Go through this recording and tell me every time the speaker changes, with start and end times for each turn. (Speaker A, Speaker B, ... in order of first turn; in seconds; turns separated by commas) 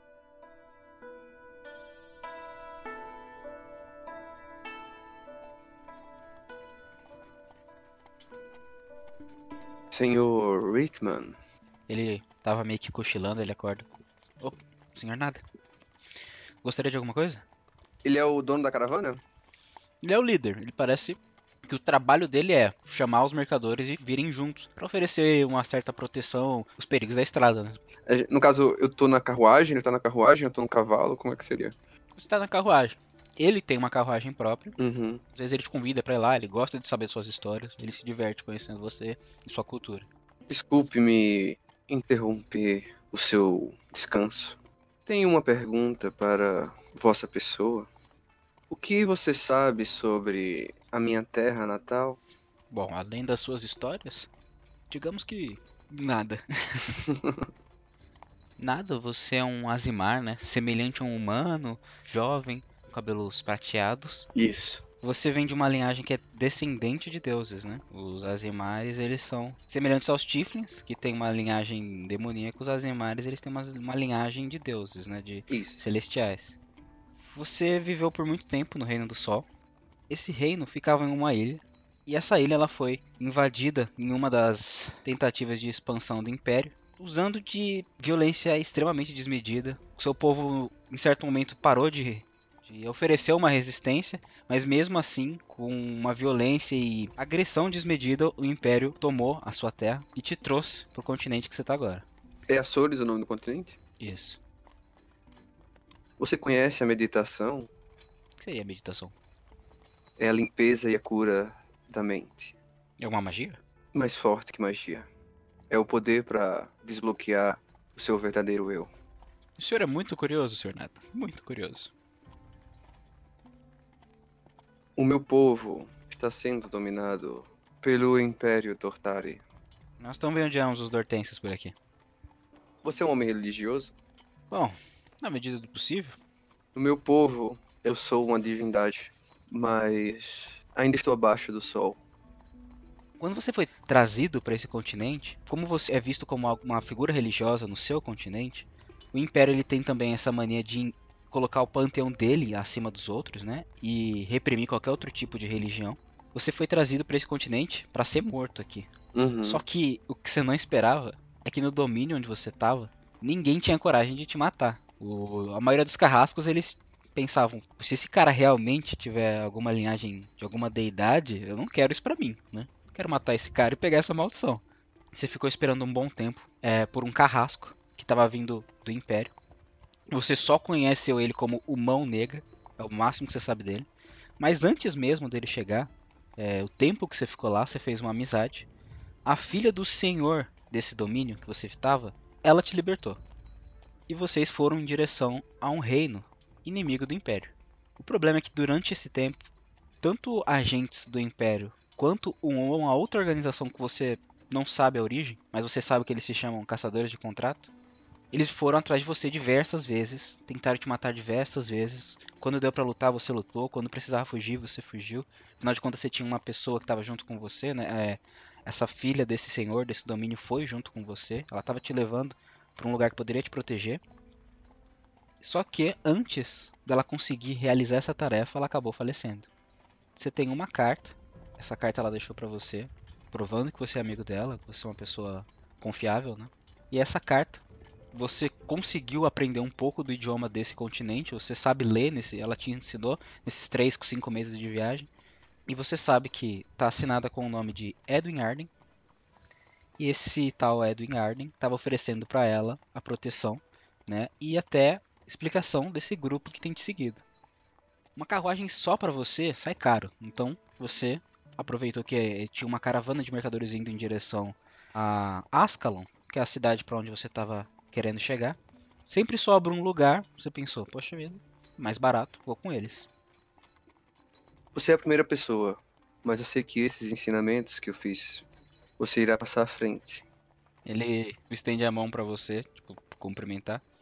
Speaker A: 9.9-11.3, Speaker B: 11.9-13.9, Speaker B: 14.4-15.4, Speaker B: 16.6-17.4, Speaker A: 18.0-19.2, Speaker B: 20.0-27.8, Speaker A: 28.1-31.7, Speaker B: 32.1-34.8, Speaker A: 34.8-35.2, Speaker B: 35.3-40.1, Speaker A: 40.5-47.9, Speaker A: 48.7-52.2, Speaker B: 52.7-54.3, Speaker B: 54.9-57.0, Speaker A: 57.0-57.4, Speaker B: 58.6-64.3, Speaker A: 64.4-64.8, Speaker B: 65.0-76.6, Speaker A: 75.5-75.8, Speaker B: 77.2-79.5, Speaker B: 80.1-102.0, Speaker A: 102.5-103.8, Speaker B: 104.0-104.4, Speaker A: 106.2-107.7, Speaker B: 108.4-109.1, Speaker A: 110.2-112.5, Speaker B: 113.0-113.6, Speaker A: 113.9-115.1, Speaker A: 115.7-118.9, Speaker B: 119.6-121.9, Speaker A: 125.0-129.4, Speaker B: 130.0-131.7, Speaker A: 132.8-133.9, Speaker B: 134.5-136.2, Speaker A: 136.7-142.0, Speaker B: 143.2-158.9, Speaker A: 159.1-159.6, Speaker B: 159.4-179.3, Speaker B: 180.1-183.9, Speaker B: 184.4-188.7, Speaker B: 189.2-193.2, Speaker B: 194.1-199.4, Speaker B: 200.0-207.7, Speaker B: 208.3-224.0, Speaker B: 225.4-229.5, Speaker B: 230.2-245.1, Speaker B: 245.7-248.7, Speaker B: 250.0-257.2, Speaker B: 258.1-268.6, Speaker B: 269.1-273.1, Speaker A: 274.7-278.4, Speaker A: 279.0-280.2, Speaker B: 280.9-283.8